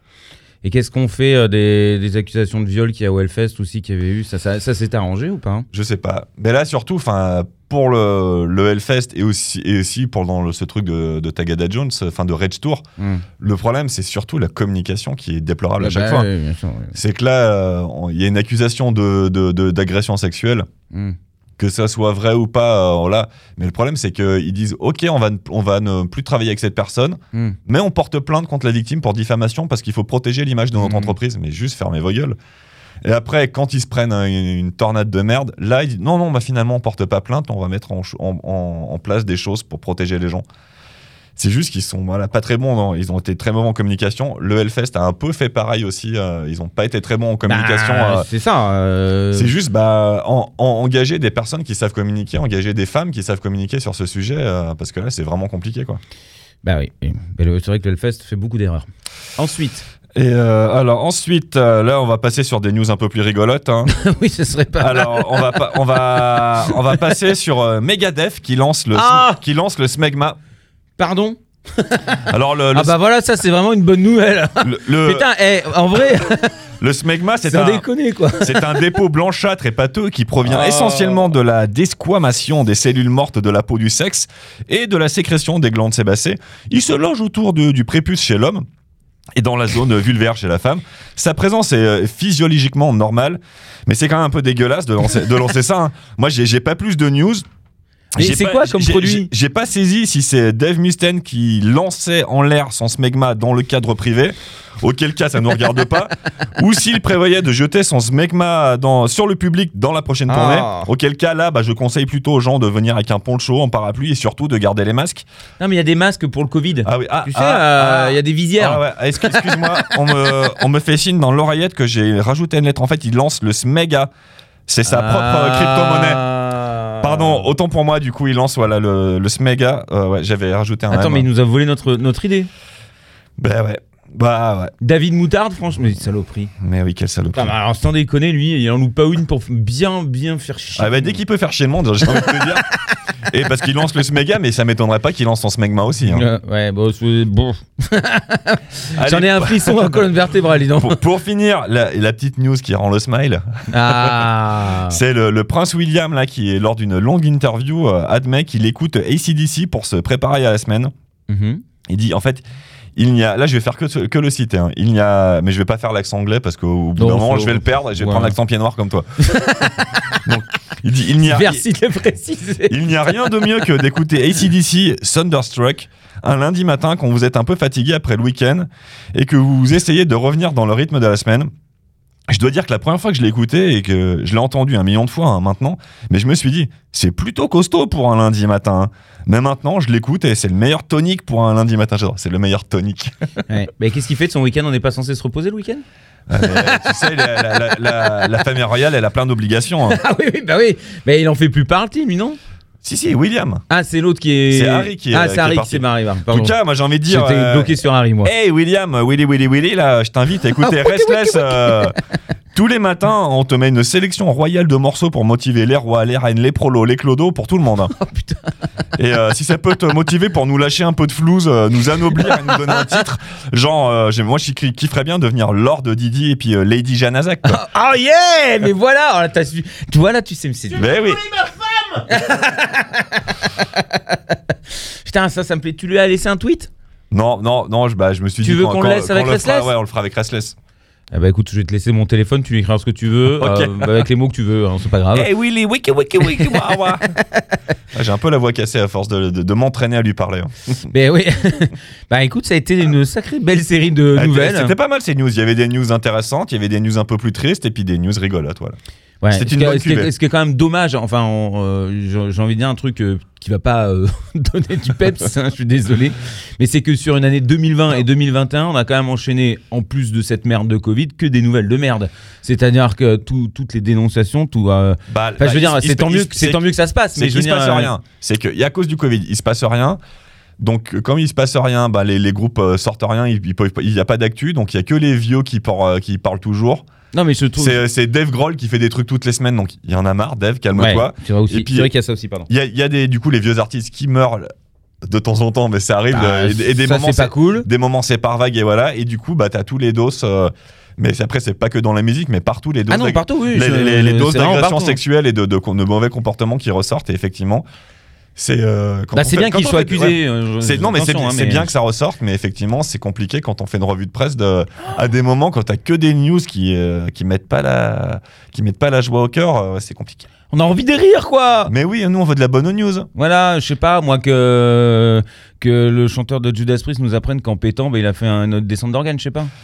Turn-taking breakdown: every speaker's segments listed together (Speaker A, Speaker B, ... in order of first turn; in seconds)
Speaker A: 0.6-5.7, 13.0-13.2, 15.8-16.9, 30.8-31.1, 47.4-49.5, 56.6-59.9, 63.9-67.1, 68.9-69.4, 71.0-76.5, 77.4-79.0, 80.4-81.3, 98.1-99.3, 110.3-110.9, 115.6-119.9, 124.8-127.5, 130.9-132.5, 134.8-136.5, 137.3-141.2, 142.0-142.8, 146.1-151.0, 153.7-155.0, 161.3-161.6, 166.9-168.4, 169.2-170.3, 171.2-173.1, 193.5-195.8, 196.4-198.2, 199.8-202.4, 203.7-208.3, 210.6-211.9, 217.9-218.5, 222.2-222.8, 227.4-236.7, 238.4-239.7, 241.1-245.3, 246.2-247.4, 250.9-254.7, 259.2-277.9, 287.1-287.8, 290.7-292.5, 296.1-297.7, 302.9-305.0, 309.1-311.7, 320.5-321.7, 323.1-329.5
Speaker B: 5.7-12.8, 13.4-16.3, 16.9-20.7, 21.6-32.4, 33.0-40.4, 41.4-48.3, 49.3-56.0, 60.1-63.9, 64.8-70.4, 72.3-73.0, 74.6-75.3, 76.8-77.8, 78.4-88.6, 89.4-97.4, 98.1-115.2, 116.8-124.1, 124.7-126.2, 127.0-131.3, 133.4-134.7, 136.6-137.5, 140.8-142.6, 143.3-146.3, 148.9-150.1, 150.8-154.3, 154.8-160.9, 161.9-162.4, 162.9-169.1, 170.2-171.6, 172.7-181.5, 182.3-193.1, 196.3-200.0, 202.8-203.6, 204.5-212.0, 212.5-217.9, 218.9-227.6, 230.7-231.2, 237.1-240.5, 243.4-244.1, 245.1-247.1, 247.9-250.8, 254.1-258.8, 259.3-260.1, 275.1-280.0, 280.6-286.8, 287.6-291.9, 292.5-294.5, 295.0-307.6, 308.4-320.3, 321.7-323.1